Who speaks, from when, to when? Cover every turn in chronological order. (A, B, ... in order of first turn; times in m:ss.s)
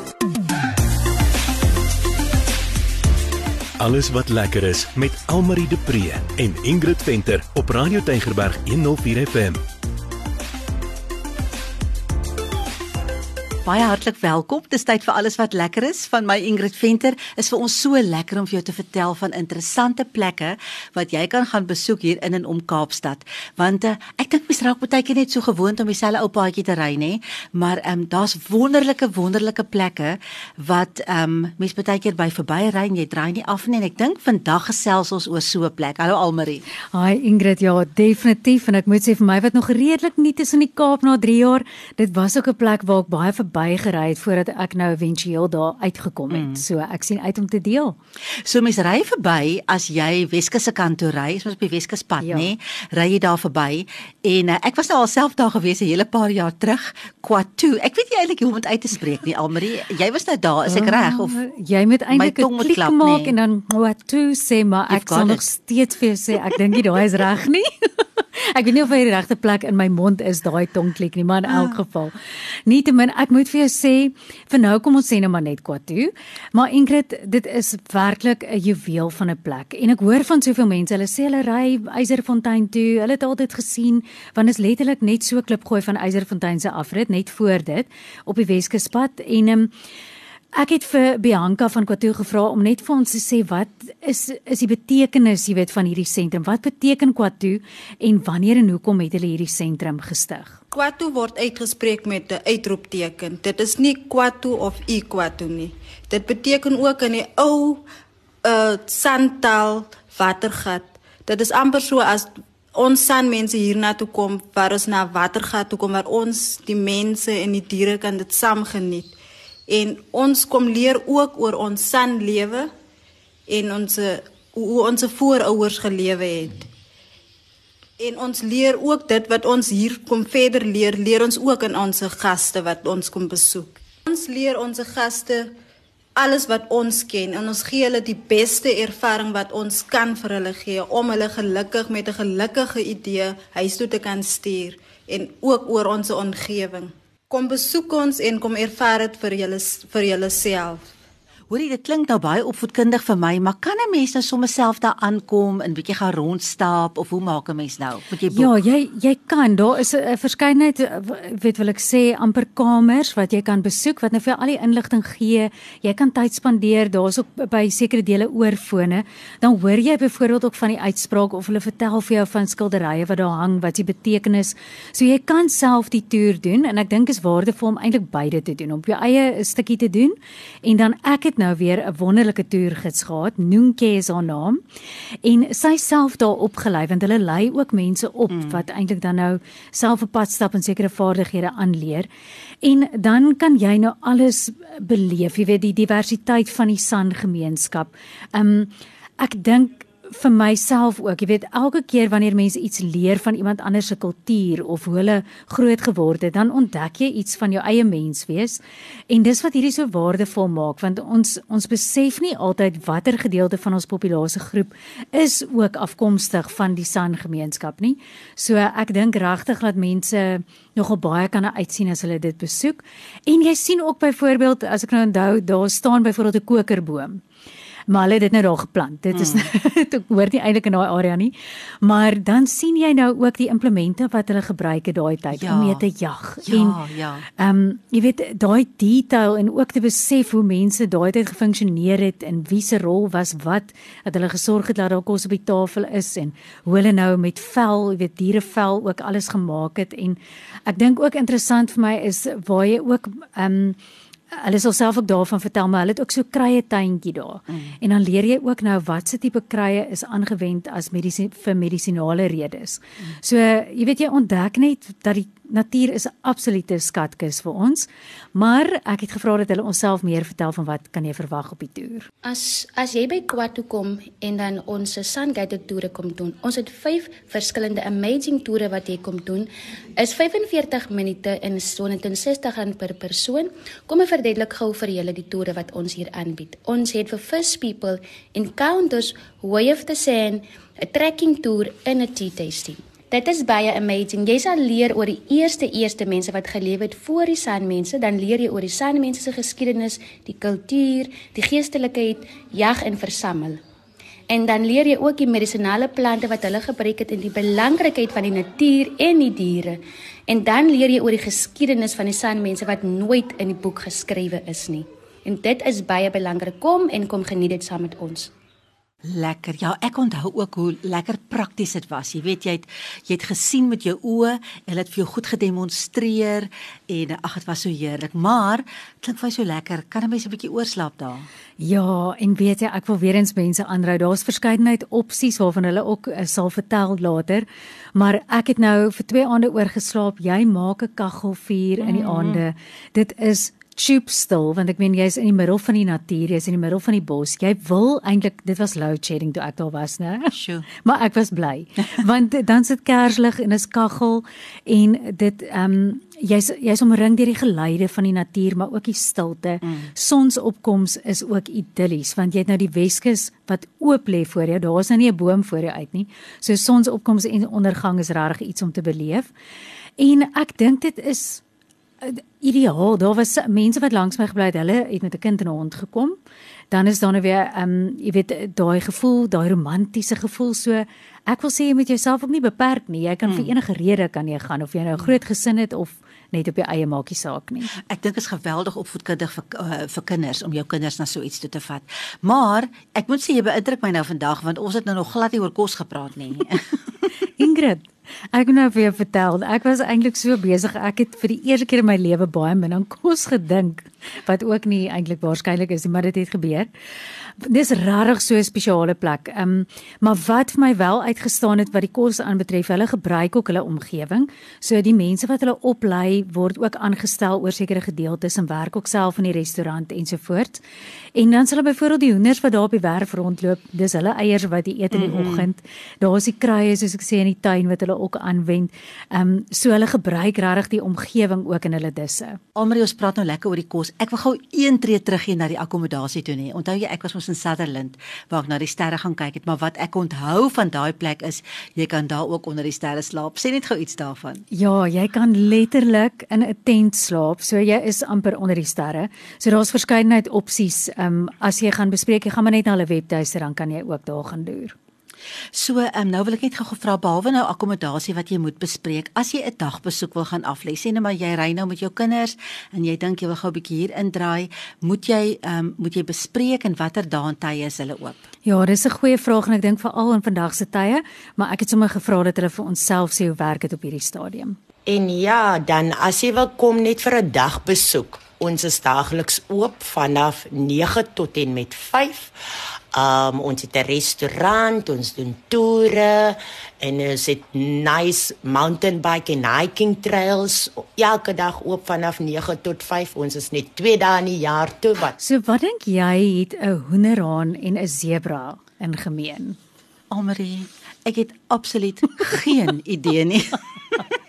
0:03.8-0:09.6 A
0:13.6-0:36.6 B
0:36.9-0:48.0 C
0:46.3-0:46.6 B
0:48.4-1:01.4 B
0:52.2-0:52.5 C
1:00.6-1:07.7 C
1:02.1-1:03.3 B
1:04.9-1:05.4 B
1:08.4-1:12.1 C
1:11.5-1:11.8 B
1:12.6-1:29.7 C
1:30.5-1:40.6 C
1:40.7-1:47.8 D
1:48.4-1:59.1 D
1:59.7-2:02.7 D
2:03.5-2:06.7 D
2:08.0-2:15.5 D
2:16.2-2:30.8 D
2:31.5-2:38.5 B
2:38.3-3:04.6 C
3:05.2-3:12.1 C
3:12.6-3:47.2 C
3:47.9-3:56.8 C
3:49.1-3:49.5 B
3:55.3-3:55.8 B
3:56.4-3:57.2 B
3:57.4-4:13.8 C
4:14.3-4:32.1 C
4:32.2-5:03.6 E
5:04.3-5:18.3 E
5:19.0-5:31.2 B
5:31.6-6:09.3 C
5:41.8-5:42.4 B
5:50.3-5:50.7 B
6:10.0-6:11.4 C
6:12.0-6:16.2 C
6:16.7-6:27.7 C
6:23.2-6:23.5 B
6:27.9-6:36.6 B
6:37.4-6:46.7 C
6:47.4-7:00.6 C
7:01.1-7:12.4 C
7:04.9-7:05.5 B
7:12.6-7:24.4 B
7:24.5-7:34.8 C
7:35.5-7:48.2 B
7:48.4-7:54.6 C
7:54.9-8:02.3 F
8:02.9-8:15.1 F
8:15.2-8:19.6 C
8:20.1-8:24.1 B